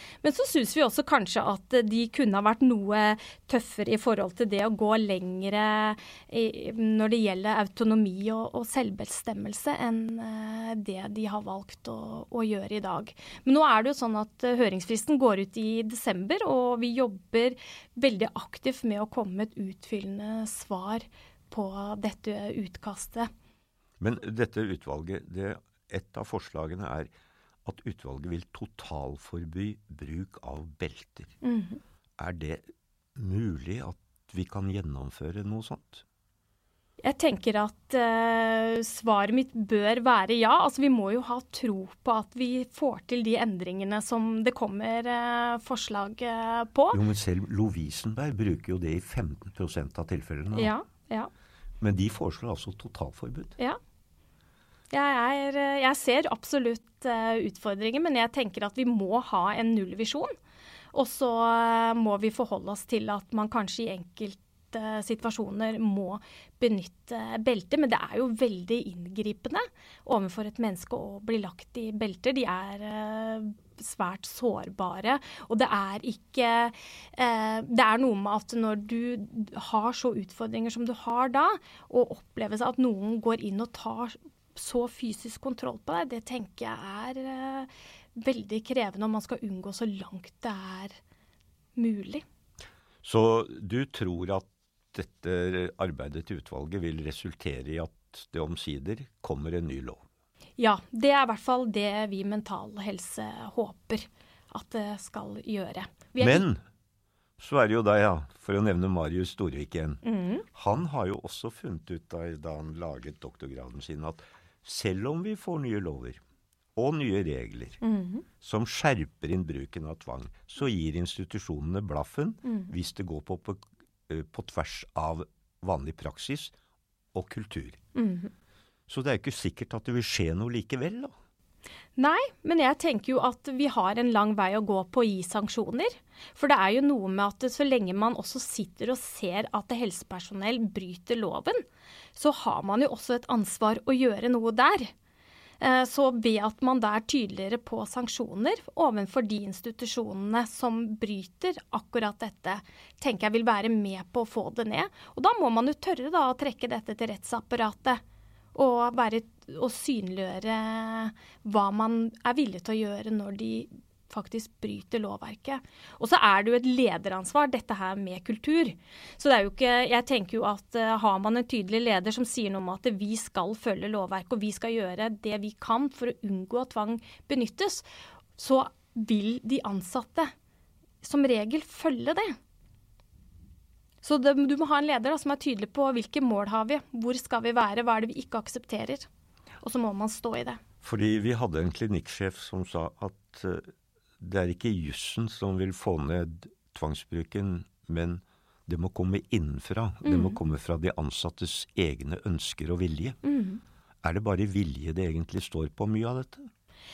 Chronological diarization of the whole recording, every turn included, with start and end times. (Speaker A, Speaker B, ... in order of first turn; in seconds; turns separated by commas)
Speaker A: 0.2-23.3, Speaker B: 24.0-27.1, Speaker B: 27.6-31.4, Speaker A: 31.4-31.8, Speaker B: 32.2-36.0, Speaker A: 37.0-47.0, Speaker B: 46.9-50.7, Speaker A: 50.5-51.3, Speaker B: 51.8-53.6, Speaker A: 54.9-60.3, Speaker A: 60.9-91.0, Speaker A: 91.8-92.2, Speaker B: 93.0-100.0, Speaker A: 100.6-106.5, Speaker B: 106.2-106.6, Speaker B: 107.4-116.2, Speaker A: 110.0-110.5, Speaker B: 116.8-117.8, Speaker A: 117.8-118.2, Speaker B: 118.4-126.5, Speaker B: 127.1-127.8, Speaker A: 128.0-128.3, Speaker B: 128.9-131.1, Speaker A: 132.0-141.6, Speaker A: 142.2-144.9, Speaker A: 145.6-158.0, Speaker A: 158.6-177.9, Speaker A: 178.4-180.3, Speaker A: 181.0-182.3, Speaker A: 184.0-189.1, Speaker A: 189.6-190.6, Speaker B: 190.8-203.2, Speaker A: 200.0-200.4, Speaker A: 203.2-203.6, Speaker B: 204.0-206.5